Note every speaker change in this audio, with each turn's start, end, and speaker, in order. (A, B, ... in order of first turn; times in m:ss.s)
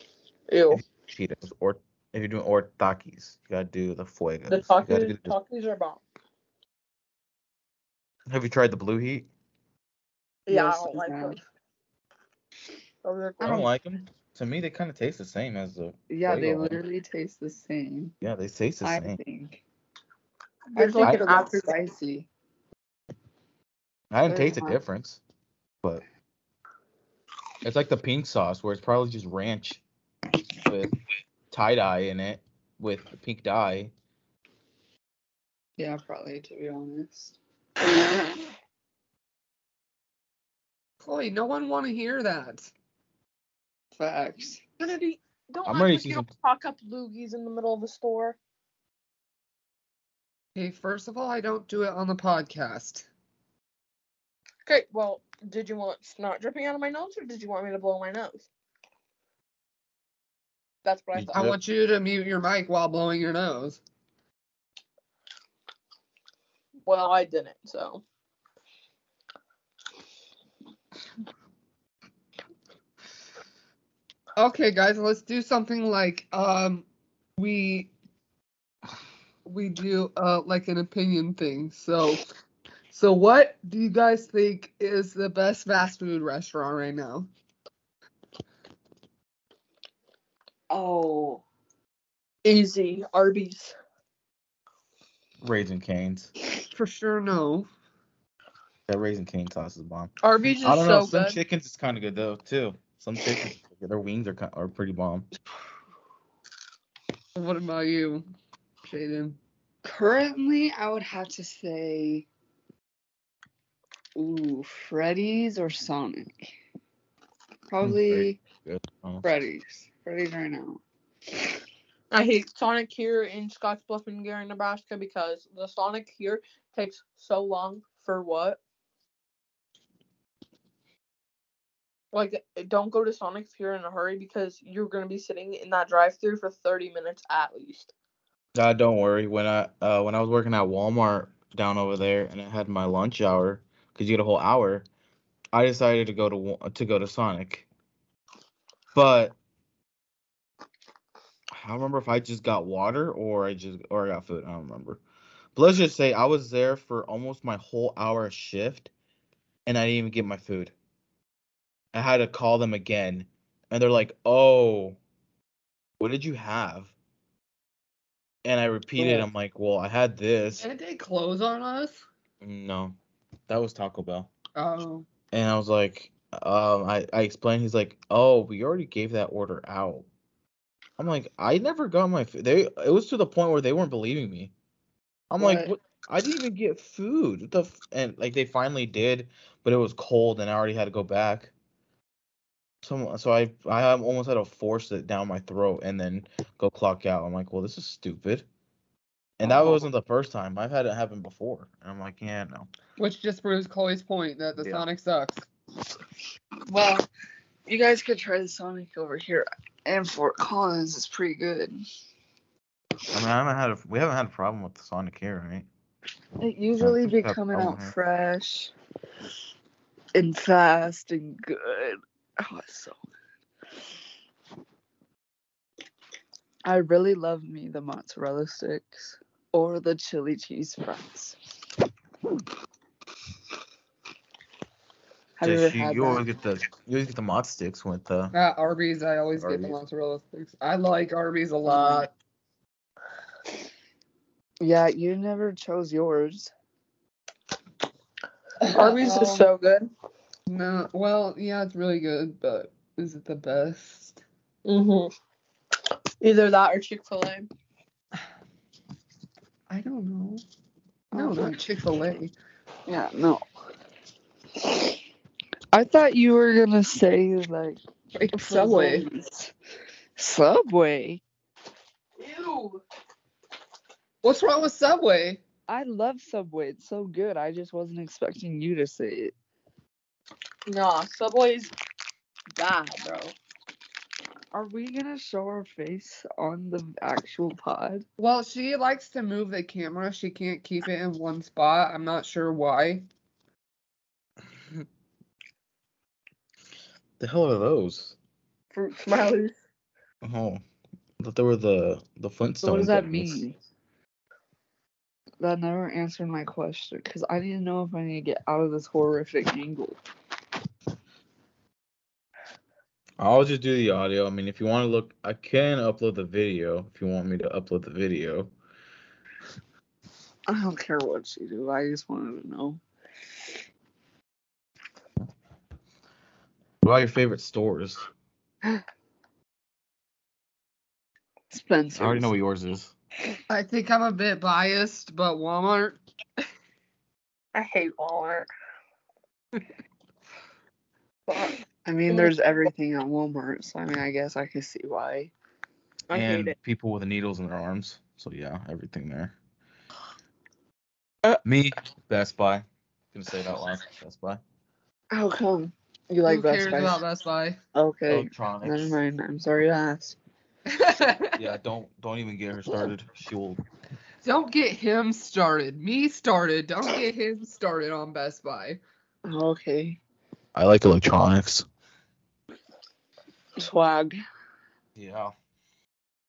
0:00.5-0:00.8 A
0:00.7-0:05.3 B
0:04.5-0:06.0 A
0:08.3-0:09.3 B
0:10.5-0:11.4 A
0:10.5-0:11.4 C
0:13.0-0:13.7 A
0:13.4-0:13.7 C
0:13.4-0:16.8 B
0:16.1-0:18.1 C
0:18.2-0:19.2 B
0:18.8-0:19.6 C
0:20.7-0:21.7 A
0:20.7-0:22.3 C
0:21.0-0:21.3 B
0:24.1-0:25.2 B
0:24.3-0:24.8 C
0:27.6-0:29.8 B
0:30.6-0:30.9 B
0:31.5-0:33.9 B
0:35.8-0:37.4 C
0:41.0-0:42.7 D
0:43.9-0:44.6 C
0:44.8-0:48.4 A
0:45.6-0:46.3 B
0:50.5-0:53.1 D
0:54.6-0:58.4 A
1:00.8-1:01.5 A
1:01.1-1:01.6 B
1:01.3-1:03.8 D
1:06.8-1:08.0 A
1:14.4-1:16.8 D
1:17.4-1:17.9 D
1:19.4-1:22.2 D
1:22.9-1:27.3 D
1:30.7-1:31.4 C
1:32.4-1:33.7 A
1:35.4-1:36.3 B
1:36.7-1:37.7 D
1:38.9-1:45.3 B
1:40.2-1:41.4 A
1:47.3-1:48.2 D
1:48.8-1:49.4 D
1:49.8-1:52.3 C
1:54.1-1:56.5 C
1:57.7-1:58.4 C
1:57.8-1:59.2 B
1:59.2-2:00.8 C
2:02.1-2:08.6 A
2:12.1-2:17.9 A
2:18.5-2:24.8 B
2:25.5-2:27.7 B
2:28.9-2:29.4 B
2:31.5-2:35.0 B
2:35.5-2:38.9 B
2:39.6-2:40.7 B
2:41.9-2:45.0 B
2:46.0-2:46.9 B
2:48.4-2:50.6 B
2:50.6-2:52.0 D
2:52.4-2:53.0 B
2:53.5-2:54.3 B
2:54.6-2:55.0 D
2:55.3-3:00.0 B
3:01.0-3:04.5 B
3:05.3-3:11.5 B
3:05.4-3:05.7 C
3:12.8-3:18.4 B
3:19.4-3:22.7 B
3:19.4-3:19.8 C
3:23.0-3:25.4 D
3:24.6-3:24.8 B
3:26.7-3:27.1 C
3:27.6-3:31.8 C
3:33.1-3:35.7 B
3:36.4-3:38.7 C
3:36.8-3:37.9 B
3:40.1-3:43.0 C
3:46.6-3:51.4 C
3:55.4-3:56.2 C
3:55.4-3:58.3 B
3:58.3-4:02.1 D
3:59.4-3:59.8 B
4:01.7-4:02.1 A
4:04.6-4:06.5 C
4:08.6-4:09.5 D
4:08.6-4:09.9 A
4:10.5-4:14.2 D
4:14.6-4:15.1 A
4:16.2-4:17.5 A
4:19.7-4:20.4 D
4:21.1-4:21.6 C
4:21.1-4:22.3 D
4:22.9-4:23.4 C
4:25.7-4:27.8 C
4:28.1-4:29.0 D
4:28.3-4:29.5 C
4:30.2-4:31.2 C
4:32.2-4:32.8 A
4:34.2-4:35.4 D
4:35.7-4:39.3 C
4:40.7-4:41.7 A
4:42.5-4:43.3 A
4:44.5-4:48.0 C
4:48.2-4:53.1 D
4:57.2-4:58.2 B
4:58.7-4:59.5 A
5:00.2-5:00.6 B
5:01.2-5:03.4 B
5:02.6-5:03.6 C
5:05.4-5:10.0 C
5:13.2-5:18.5 B
5:20.5-5:22.8 C
5:26.8-5:28.0 B
5:31.5-5:32.3 C
5:31.9-5:32.9 B
5:33.5-5:36.0 D
5:37.5-5:38.5 A
5:41.3-5:45.3 C
5:42.1-5:42.3 A
5:46.1-5:46.5 A
5:46.1-5:49.3 B
5:51.4-5:54.4 B
5:55.1-5:57.0 C
5:56.2-5:57.6 D
5:57.7-6:00.2 C
5:58.1-5:59.0 B
6:00.7-6:01.4 D
6:01.4-6:03.6 B
6:04.2-6:08.8 D
6:09.2-6:10.0 C
6:10.5-6:11.6 B
6:13.6-6:14.2 C
6:15.0-6:15.3 B